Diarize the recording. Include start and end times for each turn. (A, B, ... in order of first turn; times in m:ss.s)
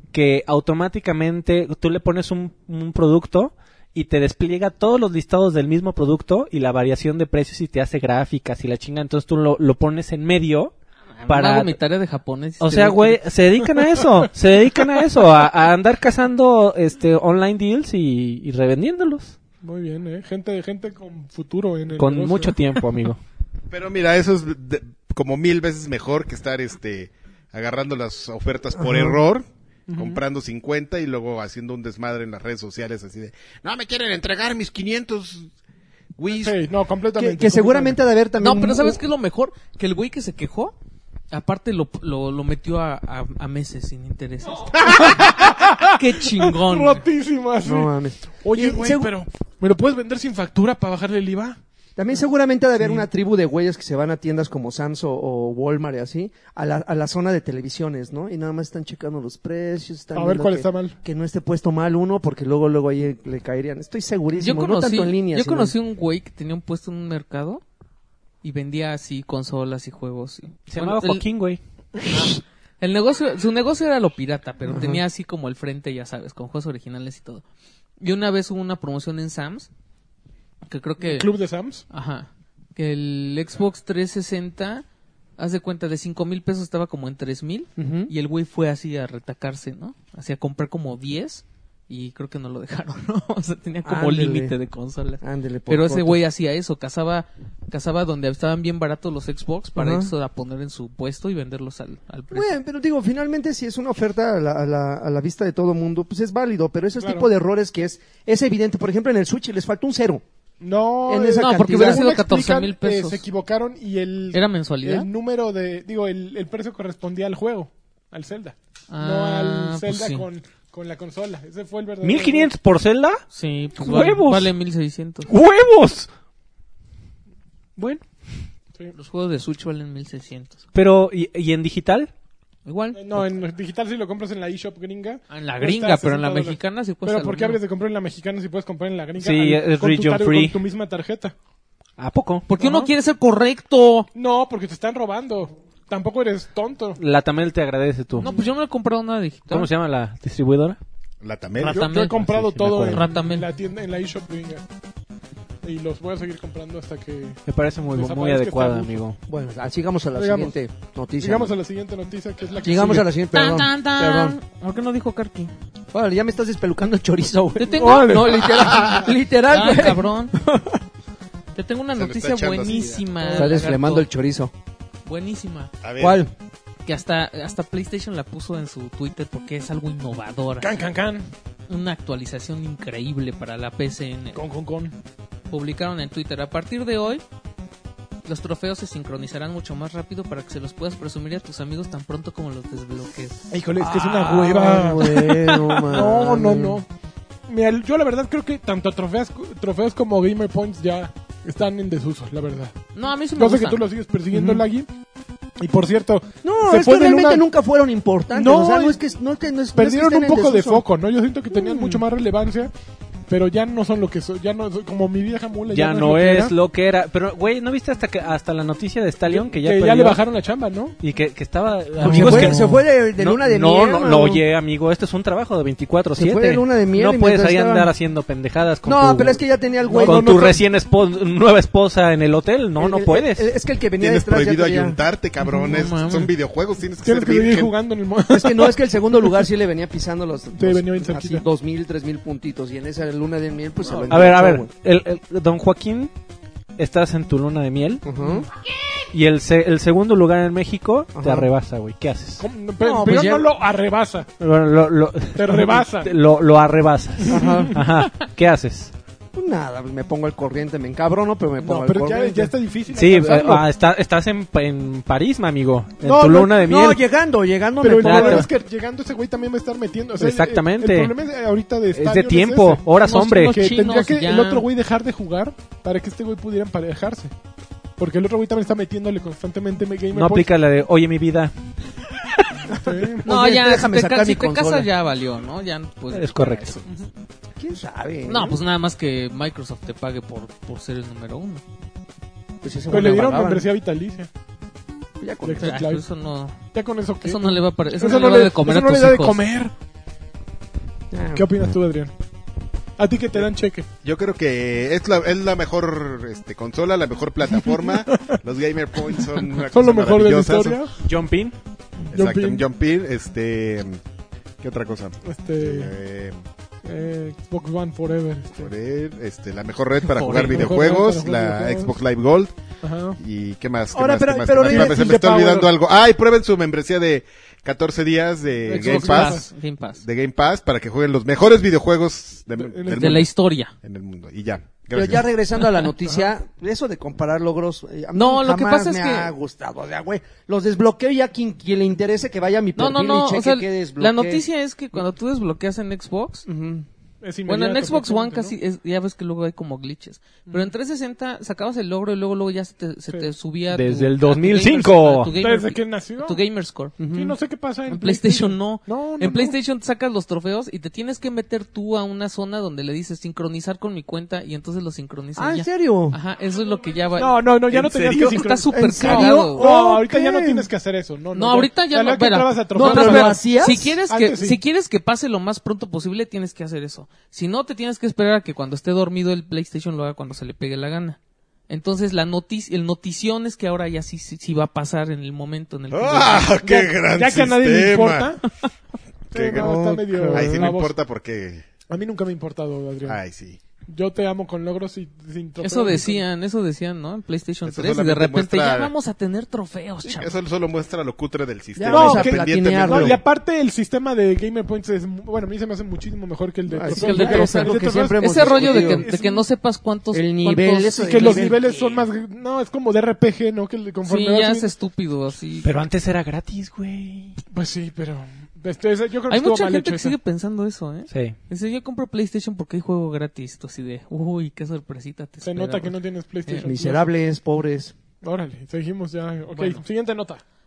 0:00.1-0:10.7 A
0:11.2-0:13.2 B
0:11.3-0:11.7 A
0:12.6-0:19.4 A
0:19.6-0:22.6 C
0:22.0-0:23.2 A
0:23.7-0:35.5 D
0:28.8-0:29.2 E
0:29.9-0:30.2 C
0:36.2-0:36.6 D
0:36.3-0:38.0 C
0:37.2-0:39.0 E
0:38.4-0:40.7 B
0:41.3-0:47.0 B
0:44.8-0:47.9 C
0:47.6-0:49.1 E
0:48.4-0:51.6 C
0:52.0-1:05.8 E
0:52.8-0:53.0 C
1:00.1-1:01.0 C
1:04.4-1:07.6 B
1:08.4-1:11.2 B
1:10.7-1:11.6 A
1:12.0-1:17.4 B
1:14.7-1:15.0 E
1:18.0-1:19.7 B
1:20.7-1:21.3 B
1:21.0-1:21.8 C
1:21.9-1:24.8 B
1:25.4-1:42.6 B
1:27.8-1:28.1 E
1:33.8-1:34.5 E
1:35.2-1:36.2 E
1:39.8-1:40.1 E
1:42.3-1:50.2 E
1:47.0-1:47.3 C
1:50.6-2:02.5 C
1:51.0-1:52.1 E
1:51.3-1:53.2 B
1:54.3-1:55.1 B
1:58.9-2:00.2 B
2:02.0-2:03.2 A
2:03.3-2:05.3 B
2:03.8-2:04.5 A
2:05.3-2:06.1 A
2:07.8-2:08.0 A
2:08.9-2:10.6 B
2:10.7-2:12.1 A
2:12.6-2:13.2 B
2:12.9-2:21.3 C
2:15.3-2:17.6 B
2:19.2-2:20.6 A
2:22.0-2:22.5 A
2:22.5-2:24.1 B
2:22.6-2:22.9 C
2:24.1-2:27.0 C
2:27.0-2:28.3 A
2:28.2-2:29.7 B
2:29.5-2:30.8 A
2:31.2-2:31.9 D
2:31.6-2:32.2 B
2:31.6-2:34.6 C
2:31.9-2:33.1 A
2:32.8-2:33.5 B
2:35.6-2:37.4 C
2:37.5-2:39.2 A
2:37.9-2:39.0 C
2:39.3-2:41.5 E
2:40.1-2:40.5 C
2:41.2-2:43.1 C
2:42.6-2:44.4 E
2:43.3-2:45.5 B
2:45.9-2:50.8 E
2:47.6-2:48.8 B
2:49.5-2:50.4 B
2:51.5-2:54.1 B
2:51.9-2:53.1 D
2:53.2-2:54.5 E
2:55.0-2:55.7 B
2:55.8-2:56.2 D
2:56.0-2:56.3 E
2:56.8-3:00.8 B
3:00.6-3:01.3 C
3:01.7-3:04.4 B
3:04.3-3:05.0 C
3:05.5-3:07.2 B
3:08.2-3:14.8 B
3:13.5-3:16.9 C
3:14.3-3:16.8 E
3:17.5-3:22.7 C
3:22.9-3:23.8 B
3:23.4-3:24.9 C
3:24.3-3:24.6 E
3:25.6-3:27.4 C
3:26.4-3:30.8 E
3:28.3-3:29.0 C
3:29.8-3:32.7 C
3:31.5-3:32.0 E
3:33.3-3:36.5 C
3:35.7-3:40.2 A
3:39.3-3:41.0 C
3:41.0-3:49.4 A
3:42.0-3:42.7 C
3:42.0-3:44.4 E
3:46.1-3:47.9 E
3:48.8-3:50.5 E
3:49.9-3:50.6 C
3:50.0-3:53.5 A
3:52.8-3:55.0 E
3:54.0-3:57.7 D
3:55.6-3:56.3 B
3:57.0-3:59.4 C
3:58.3-4:04.7 E
4:00.5-4:01.4 C
4:03.9-4:04.1 C
4:04.1-4:06.1 A
4:06.8-4:08.0 A
4:08.0-4:08.5 E
4:09.1-4:12.4 A
4:11.1-4:11.5 E
4:12.4-4:14.3 C
4:12.8-4:13.5 E
4:14.4-4:18.9 A
4:15.3-4:16.1 C
4:17.2-4:17.8 C
4:17.3-4:17.8 E
4:19.3-4:22.5 E
4:21.6-4:23.7 C
4:22.9-4:27.0 A
4:26.0-4:28.5 E
4:27.8-4:32.8 C
4:28.0-4:28.5 A
4:30.2-4:31.1 A
4:31.9-4:33.6 A
4:33.0-4:34.6 B
4:33.4-4:37.3 C
4:38.0-4:40.5 C
4:40.1-4:41.5 A
4:42.8-4:43.2 C
4:42.8-4:44.9 E
4:43.2-4:47.0 B
4:46.1-4:46.8 A
4:47.6-4:48.6 E
4:48.2-4:51.6 B
4:52.6-4:53.7 E
4:52.9-4:54.3 C
4:55.2-4:55.8 E
4:55.4-4:56.0 C
4:55.6-4:56.6 B
4:56.7-4:59.7 C
4:57.2-4:59.4 B
5:01.1-5:01.5 E
5:01.3-5:02.1 C
5:03.0-5:03.9 C
5:04.0-5:10.8 D
5:07.5-5:08.4 C
5:09.1-5:10.9 C
5:11.0-5:11.5 A
5:12.1-5:12.6 C
5:12.1-5:14.0 D
5:14.6-5:16.3 D
5:15.2-5:15.9 C
5:16.8-5:18.7 C
5:18.6-5:29.4 D
5:20.0-5:20.8 B
5:20.3-5:22.0 C
5:22.8-5:23.2 C
5:23.9-5:25.2 E
5:24.5-5:25.7 C
5:28.7-5:29.5 C
5:28.7-5:30.0 B
5:30.0-5:33.3 D
5:32.6-5:33.3 C
5:32.9-5:33.7 B
5:33.8-5:35.3 D
5:34.9-5:44.4 E
5:38.1-5:39.3 B
5:42.8-5:46.4 B
5:46.4-5:46.9 E
5:47.2-5:48.5 C
5:47.4-5:57.0 B
5:53.7-5:55.3 A
5:55.3-5:56.4 C
5:57.0-5:57.4 E
5:57.1-5:59.6 C
5:57.9-6:09.7 B
6:05.4-6:06.2 E
6:07.2-6:13.5 C
6:08.6-6:10.7 E
6:11.3-6:21.2 B
6:12.7-6:14.0 E
6:14.0-6:14.6 C
6:21.7-6:26.6 B
6:25.9-6:28.3 D
6:26.6-6:28.4 C
6:29.3-6:31.7 D
6:29.3-6:31.0 C
6:29.5-6:30.7 E
6:31.9-6:33.2 C
6:33.0-6:33.6 D
6:33.9-6:36.2 C
6:35.6-6:40.4 B
6:37.6-6:38.9 D
6:40.0-6:43.2 D
6:41.8-6:43.2 E
6:41.9-6:49.4 C
6:46.7-6:49.1 E
6:46.8-6:51.8 B
6:50.1-6:51.8 E
6:51.0-6:54.7 C
6:54.0-6:55.7 B
6:55.6-6:57.4 A
6:57.5-7:00.2 C
6:59.3-7:06.0 B
7:01.1-7:01.4 A
7:05.4-7:07.1 C
7:06.6-7:07.9 E
7:08.2-7:10.4 C
7:09.5-7:09.8 B